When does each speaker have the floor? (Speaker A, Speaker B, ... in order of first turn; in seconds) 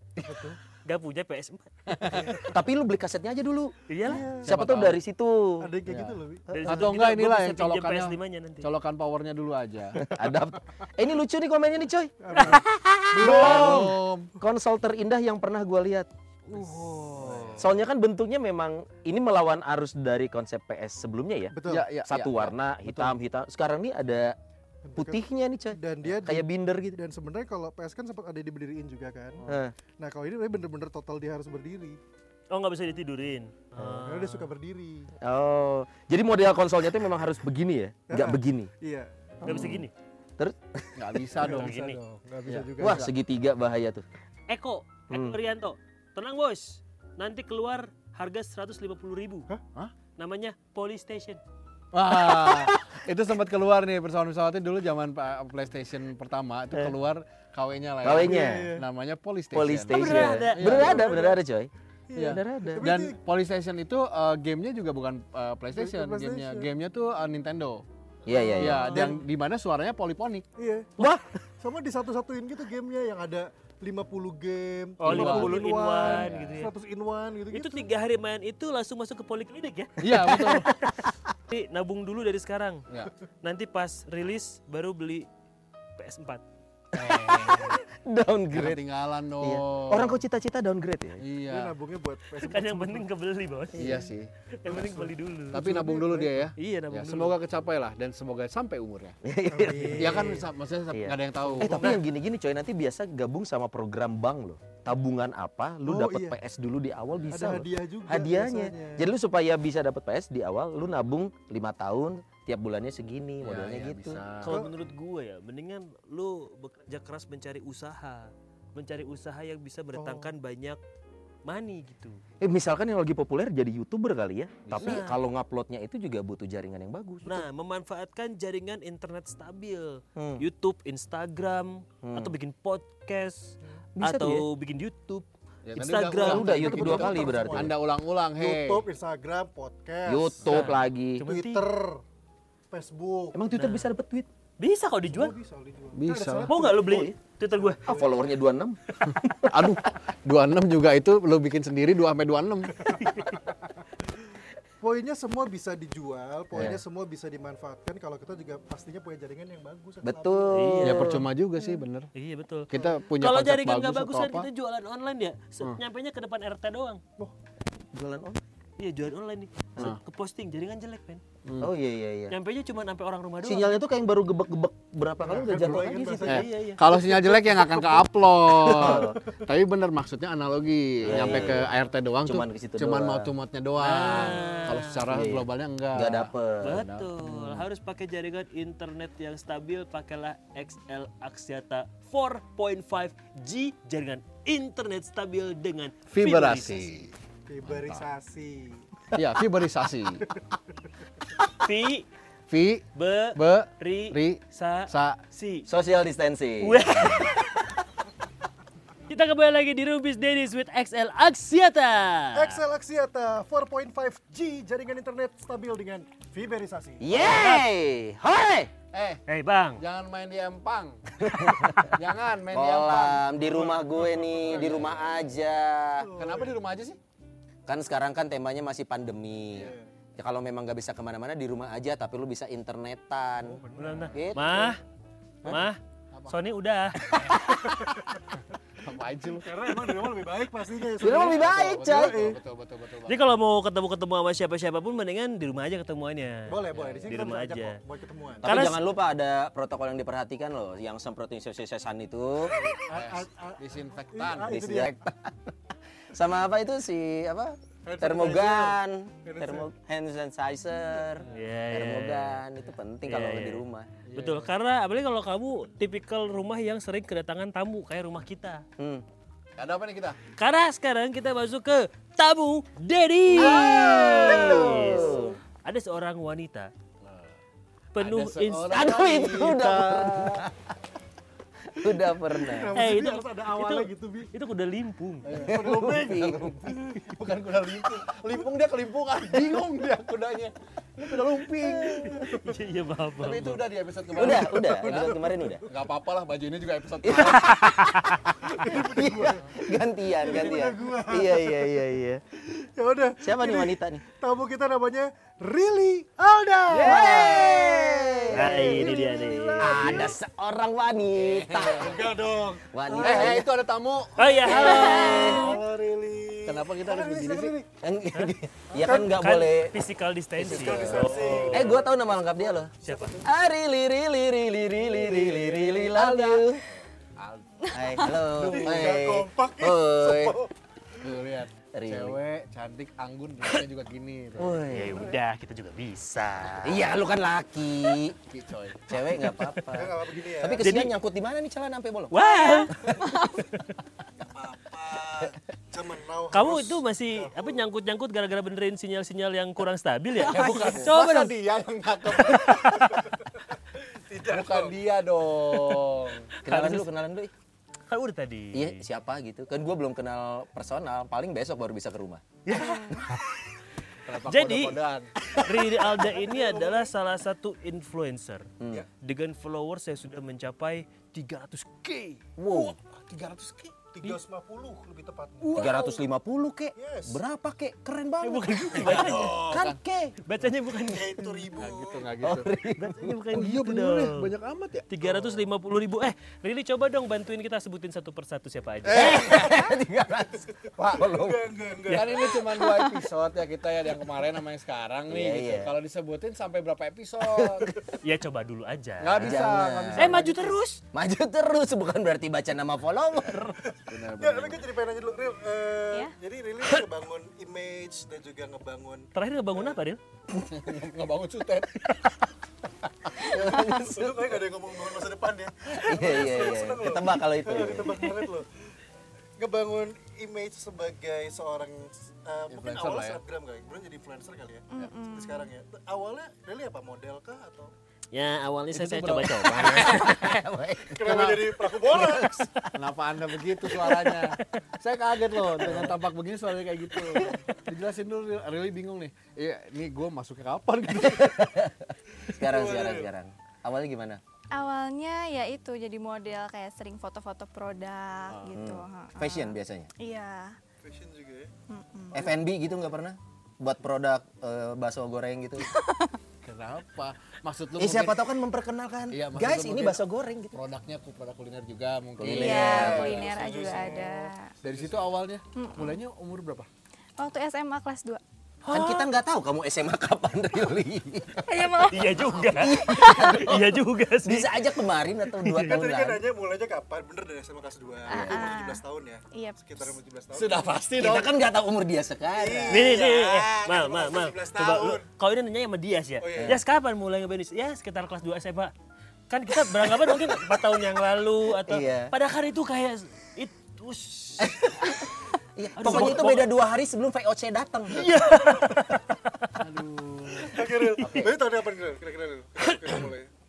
Speaker A: 0.2-0.6, 4.0-4.6, 5.6-6.5, 12.2-14.0, 16.7-17.7, 21.5-21.9, 24.9-29.5, 30.0-32.0, 33.9-35.1, 38.1-39.1, 41.3-43.1, 58.2-58.9, 60.1-61.4, 62.1-63.2, 65.7-66.7, 70.6-70.9, 71.6-77.9, 91.5-93.1, 93.8-94.1, 94.7-96.5, 99.5-100.5, 101.5-102.0, 105.8-106.4, 107.3-109.1, 119.9-120.3, 136.1-137.8, 138.4-140.6, 141.2-142.0, 142.7-143.4, 145.1-146.8, 147.6-148.3, 154.8-161.1, 175.2-178.0, 178.8-179.1, 197.5-198.9, 212.3-217.4, 226.0-226.6, 229.6-229.8, 233.4-234.6, 237.7-238.2, 239.4-242.4, 246.5-248.5, 252.5-254.9, 257.9-259.7, 274.3-275.2, 282.4-284.3, 285.3-287.1, 291.9-292.2, 294.2-295.6, 298.4-301.8, 302.4-310.2, 311.7-313.4, 314.5-317.7, 318.7-319.2, 320.4-323.2, 324.9-325.6, 328.0-330.5, 334.8-335.1, 339.7-340.7, 344.2-347.6, 353.8-354.8, 366.3-366.9, 372.5-375.8, 376.8-377.2, 378.8-379.6, 380.8-382.1, 390.5-392.6, 403.7-409.8, 413.2-418.5, 419.4-427.7, 430.9-432.4, 435.6-435.9, 442.3-443.1, 450.8-451.5, 463.0-464.1, 475.5-480.8, 482.3-485.0, 486.2-486.6, 500.4-503.3
Speaker B: 0.8-1.9, 3.9-4.3, 6.5-8.7, 32.5-34.5, 39.4-39.9, 41.5-42.0, 44.5-49.5, 50.2-51.4, 59.9-60.8, 68.7-69.2, 75.0-76.7, 77.5-82.9, 83.4-85.3, 86.0-86.4, 92.4-94.0, 94.5-95.7, 96.6-97.3, 114.4-120.8, 121.5-122.2, 124.8-125.2, 127.2-136.5, 140.5-141.7, 143.5-143.9, 144.6-145.3, 146.5-147.8, 152.9-153.4, 160.5-161.2, 162.2-167.0, 168.8-171.2, 172.3-173.8, 176.3-176.8, 183.8-185.0, 186.6-196.9, 201.6-202.1, 202.9-205.7, 206.6-207.6, 209.1-212.6, 219.3-219.8, 233.8-234.8, 235.4-237.2, 243.1-247.8, 248.4-248.8, 261.3-262.4, 263.0-263.6, 264.1-268.6, 270.3-276.7, 277.9-278.9, 282.7-285.4, 292.1-293.6, 297.3-298.1, 308.3-309.8, 314.2-315.6, 319.1-321.7, 322.8-323.2, 334.7-336.9, 340.6-340.9, 342.1-343.8, 346.3-351.3, 352.3-353.0, 356.3-356.9, 357.9-358.9, 362.4-363.2, 364.2-364.8, 365.4-368.5, 369.0-372.2, 378.2-379.4, 380.2-381.4, 382.8-384.3, 384.9-389.1, 391.9-392.1, 398.0-399.2, 400.0-400.8, 409.1-410.0, 428.1-430.0, 468.6-469.1, 471.9-474.6, 475.3-475.8, 482.7-488.7, 489.3-494.6, 495.8-496.5, 497.9-499.5
Speaker C: 1.9-2.4, 4.4-5.0, 5.8-10.1, 13.2-14.4, 16.5-17.8, 21.6-23.2, 41.0-41.8, 42.5-43.1, 51.9-61.2, 62.1-67.8, 68.6-70.5, 75.0-76.7, 80.0-80.7, 87.0-87.8, 88.5-90.2, 91.2-91.8, 93.8-94.3, 95.5-99.2, 100.0-102.0, 113.4-114.6, 124.6-125.1, 135.7-138.9, 145.9-146.6, 149.1-152.9, 156.5-156.8, 160.8-162.1, 162.7-164.5, 171.4-171.7, 176.2-187.7, 196.1-198.1, 199.1-200.2, 202.5-205.2, 218.9-219.2, 219.8-225.1, 226.1-227.0, 233.9-234.2, 236.1-236.4, 238.8-240.1, 241.0-243.2, 246.7-247.2, 252.8-254.6, 264.1-264.5, 269.6-270.2, 273.4-274.4, 277.0-277.4, 278.0-280.4, 285.2-292.3, 293.2-297.5, 311.2-312.0, 313.0-315.6, 316.4-317.6, 320.4-321.4, 325.0-328.8, 331.0-334.6, 338.3-339.1, 350.1-352.9, 354.3-356.3, 364.0-365.1, 366.1-366.5, 373.1-374.1, 375.4-376.1, 379.0-379.8, 381.6-382.5, 383.3-385.3, 388.8-389.7, 391.9-397.8, 399.0-400.6, 403.9-404.7, 410.3-412.1, 413.0-413.3, 422.5-423.2, 424.8-425.0, 428.7-430.4, 430.9-431.6, 432.7-441.3, 448.3-448.7, 456.4-458.3, 459.1-466.7, 480.3-481.3, 499.6-500.5
Speaker D: 2.2-3.9, 4.4-5.7, 6.5-6.9, 10.0-16.1, 17.6-24.4, 24.9-27.0, 29.5-29.7, 35.2-38.7, 39.4-39.9, 40.4-41.2, 42.8-44.1, 45.1-45.4, 52.1-53.0, 58.0-58.7, 59.5-61.7, 62.2-62.9, 68.3-69.0, 71.0-71.4, 80.3-81.3, 86.9-88.8, 89.4-91.2, 99.2-100.1, 100.9-114.2, 122.4-127.5, 130.2-130.5, 132.0-132.3, 134.0-134.5, 136.2-137.8, 140.1-141.2, 143.3-144.3, 146.8-147.2, 147.9-149.8, 160.0-161.2, 167.9-168.4, 171.6-172.3, 173.4-176.4, 178.6-179.2, 181.0-181.7, 182.2-183.3, 185.1-186.8, 205.7-207.3, 217.0-218.7, 221.3-221.9, 222.5-226.1, 227.7-233.6, 234.1-234.7, 241.0-242.2, 248.4-252.6, 254.5-255.5, 256.1-263.9, 268.8-269.1, 273.4-275.4, 278.7-280.5, 281.7-282.8, 285.5-286.7, 294.1-295.6, 297.1-302.2, 303.2-304.0, 306.8-308.9, 309.6-312.0, 312.7-313.4, 317.8-319.7, 321.4-322.7, 323.2-326.6, 327.7-330.4, 331.7-332.2, 334.4-335.1, 336.6-338.2, 338.9-342.2, 342.7-343.2, 356.4-357.3, 358.5-362.4, 368.6-368.9, 372.4-372.8, 375.6-380.1, 382.2-383.2, 388.9-391.4, 395.1-395.8, 397.4-397.7, 399.2-400.2, 400.9-403.6, 413.2-414.3, 415.7-418.0, 429.7-431.1, 431.9-432.5, 440.9-444.2, 448.5-449.9, 452.1-455.7, 457.8-460.6, 462.2-463.2, 468.7-476.2, 478.1-478.6, 481.0-483.0, 486.4-486.6, 491.6-492.1, 494.4-498.2, 501.0-501.3
Speaker E: 342.2-343.2, 350.3-350.8, 362.6-363.0, 424.7-425.5, 444.5-450.6, 451.7-452.2, 462.3-464.5, 465.6-466.0, 467.2-468.2, 471.4-473.3, 478.1-478.8, 479.3-479.8